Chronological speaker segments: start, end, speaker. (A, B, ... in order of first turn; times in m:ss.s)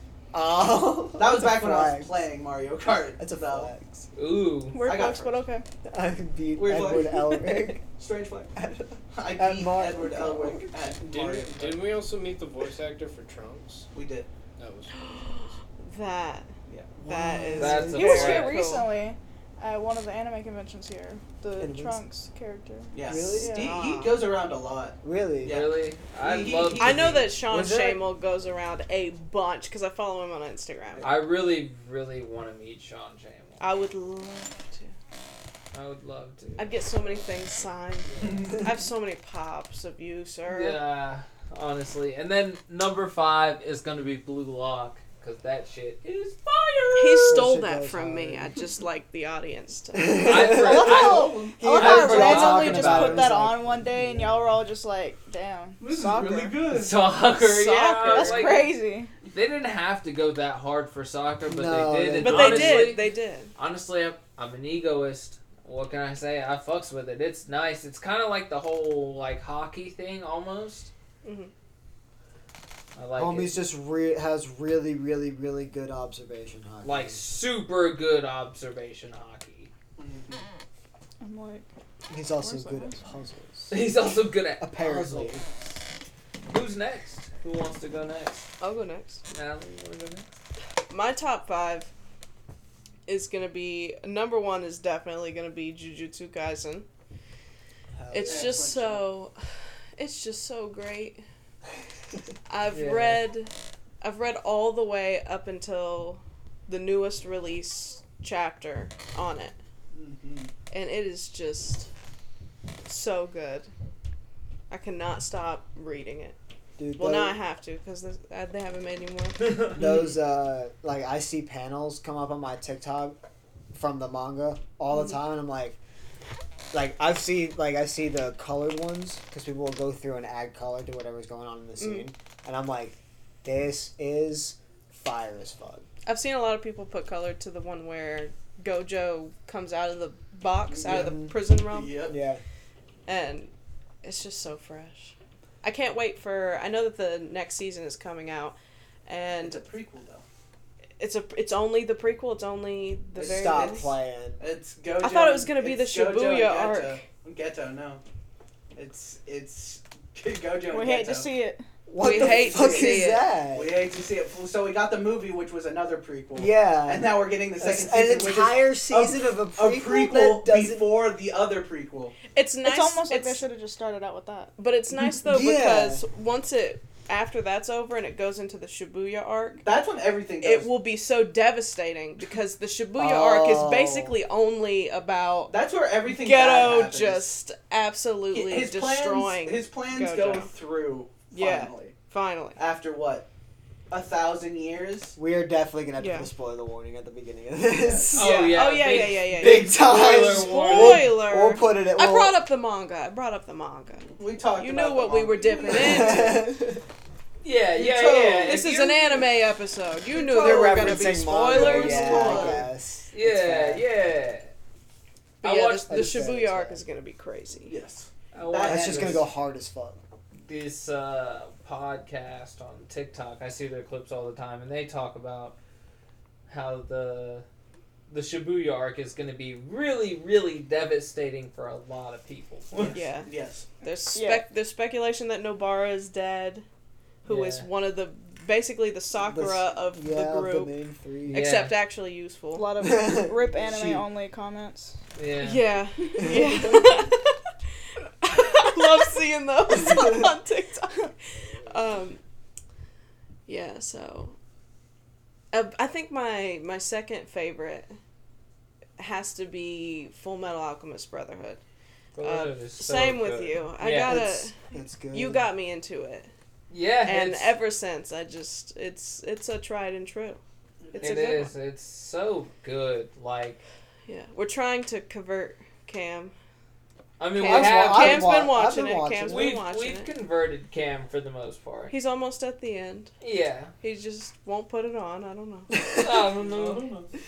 0:00.3-0:02.2 A
0:01.2-0:03.7 B
0:03.2-0:04.1 A
0:04.2-0:04.8 C
0:04.7-0:05.6 D
0:04.8-0:05.5 B
0:05.8-0:07.8 A
0:06.5-0:08.5 B
0:08.6-0:11.0 A
0:09.1-0:12.0 B
0:11.1-0:13.9 E
0:13.9-0:14.3 B
0:14.6-0:15.5 E
0:14.9-0:16.5 F
0:16.7-0:17.0 B
0:17.0-0:18.2 A
0:17.0-0:18.9 F
0:17.6-0:18.6 C
0:17.9-0:23.7 D
0:21.6-0:22.0 A
0:22.9-0:27.2 B
0:23.0-0:23.6 A
0:23.5-0:24.2 F
0:25.0-0:25.6 A
0:25.4-0:28.0 C
0:26.8-0:31.1 F
0:31.0-0:33.6 C
0:33.6-0:34.9 F
0:35.7-0:36.7 C
0:36.6-0:40.8 F
0:38.1-0:38.6 C
0:38.2-0:38.6 B
0:40.5-0:47.4 C
0:46.9-0:50.4 F
0:47.3-0:48.6 A
0:49.9-0:54.5 A
0:50.2-0:53.3 C
0:50.6-0:56.6 D
0:50.7-0:51.6 B
0:55.8-0:57.0 B
0:56.7-0:58.7 C
0:57.3-0:58.6 F
0:58.1-0:59.1 D
0:59.3-1:10.9 C
1:01.4-1:03.0 A
1:02.2-1:03.5 F
1:11.2-1:11.5 F
1:13.0-1:13.6 C
1:13.2-1:17.2 A
1:16.8-1:19.7 C
1:20.0-1:20.4 B
1:21.2-1:21.6 D
1:22.1-1:25.4 A
1:22.3-1:23.1 D
1:23.7-1:25.7 C
1:26.5-1:28.5 C
1:28.6-1:29.2 F
1:29.3-1:30.3 C
1:30.9-1:31.9 F
1:33.0-1:36.9 F
1:38.0-1:38.6 A
1:38.1-1:39.3 F
1:38.2-1:39.1 B
1:40.0-1:41.2 F
1:42.5-1:49.6 F
1:42.7-1:43.2 C
1:49.9-1:50.5 B
1:50.7-1:51.9 F
1:52.8-1:53.7 F
1:54.7-1:56.4 F
1:56.8-1:57.4 A
1:57.0-1:59.8 F
1:59.4-1:59.7 C
1:59.7-2:03.2 A
2:03.7-2:05.8 A
2:06.7-2:15.8 A
2:11.8-2:12.1 F
2:16.0-2:22.0 F
2:20.8-2:22.2 B
2:20.8-2:21.3 A
2:22.1-2:22.4 A
2:23.0-2:23.5 F
2:24.0-2:29.6 F
2:29.4-2:30.2 B
2:31.0-2:33.9 F
2:33.2-2:34.4 A
2:33.2-2:38.0 B
2:35.0-2:37.0 F
2:38.7-2:41.3 B
2:40.7-2:41.6 D
2:41.9-2:43.8 A
2:42.0-2:43.2 F
2:42.0-2:52.2 B
2:46.3-2:50.9 A
2:52.3-2:53.4 F
2:52.6-2:54.5 D
2:54.6-2:59.6 F
2:55.1-2:56.0 A
2:59.6-3:00.7 B
3:00.4-3:05.5 F
3:03.0-3:04.2 A
3:05.5-3:07.3 B
3:06.1-3:10.5 F
3:08.3-3:11.9 B
3:11.3-3:12.6 F
3:12.6-3:13.3 B
3:13.9-3:15.2 B
3:15.2-3:18.7 A
3:16.0-3:16.3 F
3:17.7-3:18.5 B
3:18.1-3:21.1 C
3:18.1-3:26.4 F
3:19.3-3:22.4 A
3:24.1-3:26.4 B
3:25.7-3:26.8 A
3:27.4-3:28.9 C
3:27.7-3:29.2 B
3:28.4-3:32.6 F
3:30.1-3:32.7 B
3:30.3-3:33.8 A
3:33.1-3:34.5 C
3:35.4-3:35.9 C
3:35.4-3:37.7 F
3:35.8-3:36.8 A
3:37.6-3:39.3 B
3:38.3-3:39.3 C
3:38.6-3:40.0 A
3:40.4-3:45.6 C
3:46.5-3:47.4 C
3:48.1-3:53.0 C
3:52.7-3:53.7 B
3:52.9-3:53.3 F
3:53.8-3:56.6 F
3:54.1-3:54.4 D
3:57.2-4:00.7 F
3:57.2-3:57.7 C
3:59.2-4:01.5 A
4:01.3-4:02.7 F
4:01.3-4:01.8 C
4:02.5-4:05.0 D
4:02.8-4:04.1 A
4:05.2-4:05.7 C
4:05.4-4:07.4 F
4:06.2-4:07.0 A
4:08.2-4:12.2 F
4:09.8-4:10.2 A
4:13.5-4:14.4 F
4:15.5-4:18.0 F
4:19.0-4:21.6 F
4:22.2-4:24.2 C
4:22.2-4:24.6 F
4:24.0-4:25.5 A
4:25.1-4:26.3 F
4:26.7-4:27.6 C
4:27.0-4:30.4 F
4:30.8-4:31.3 B
4:31.0-4:31.5 F
4:31.0-4:33.6 C
4:34.1-4:36.3 F
4:37.2-4:38.4 C
4:37.3-4:40.1 F
4:37.4-4:39.6 A
4:39.3-4:41.9 C
4:41.9-4:43.1 F
4:43.2-4:43.7 C
4:43.8-4:45.7 F
4:45.7-4:46.3 A
4:45.9-4:47.0 C
4:46.4-4:47.1 B